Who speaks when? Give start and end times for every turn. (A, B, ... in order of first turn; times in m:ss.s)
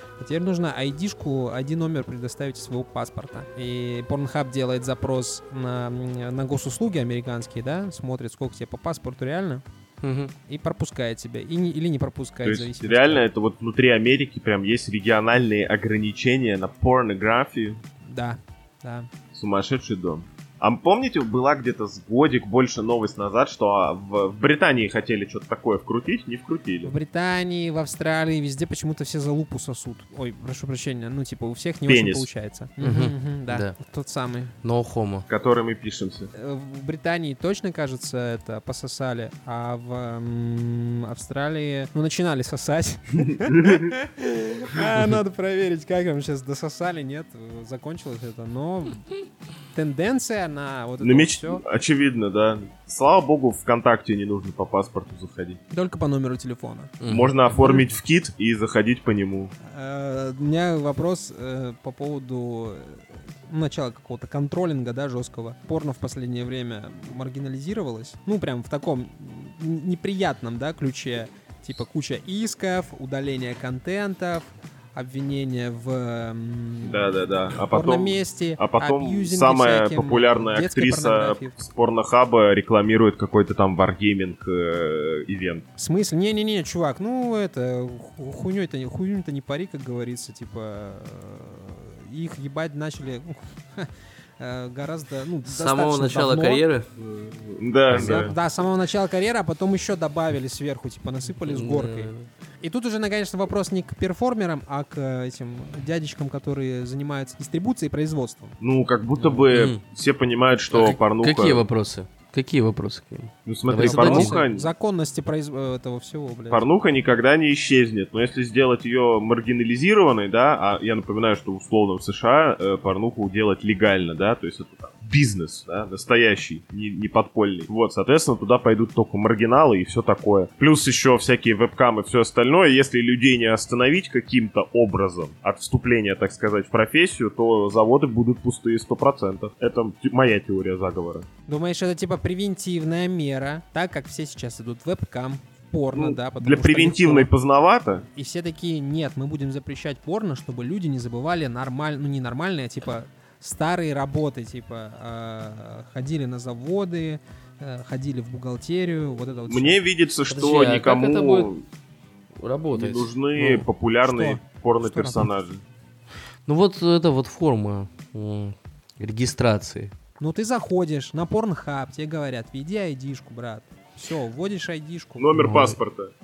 0:00.2-0:09.6 A
0:10.0-0:10.3 B
0:10.5-0:13.2 A
0:12.4-0:17.8 C
0:18.0-0:19.1 A
0:19.3-0:26.9 C
0:26.8-0:34.5 A
0:31.9-0:32.3 C
0:32.8-0:33.8 B
0:34.6-0:35.3 B
0:35.3-0:36.3 C
0:36.3-0:49.1 A
0:43.4-0:43.9 C
0:49.7-0:51.6 A
0:51.0-0:55.6 C
0:55.7-0:57.0 A
0:57.0-0:58.0 B
0:57.1-0:59.5 C
0:59.6-1:21.6 A
1:16.8-1:25.6 C
1:25.8-1:36.7 A
1:35.4-1:36.9 B
1:37.0-1:38.3 C
1:37.9-1:38.4 B
1:37.9-1:48.6 A
1:41.3-1:42.3 B
1:48.6-1:51.6 C
1:49.2-1:49.8 B
1:50.7-1:54.4 B
1:53.5-1:54.7 C
1:53.8-1:56.6 A
1:56.5-2:21.3 C
2:21.5-2:27.3 A
2:26.0-2:28.1 C
2:28.1-2:39.8 A
2:39.5-2:41.6 C
2:40.3-2:41.5 B
2:42.4-2:43.7 B
2:42.7-2:45.6 C
2:44.0-2:45.3 A
2:46.5-2:49.9 B
2:50.2-2:55.3 A
2:55.2-2:56.1 C
2:55.4-2:55.8 B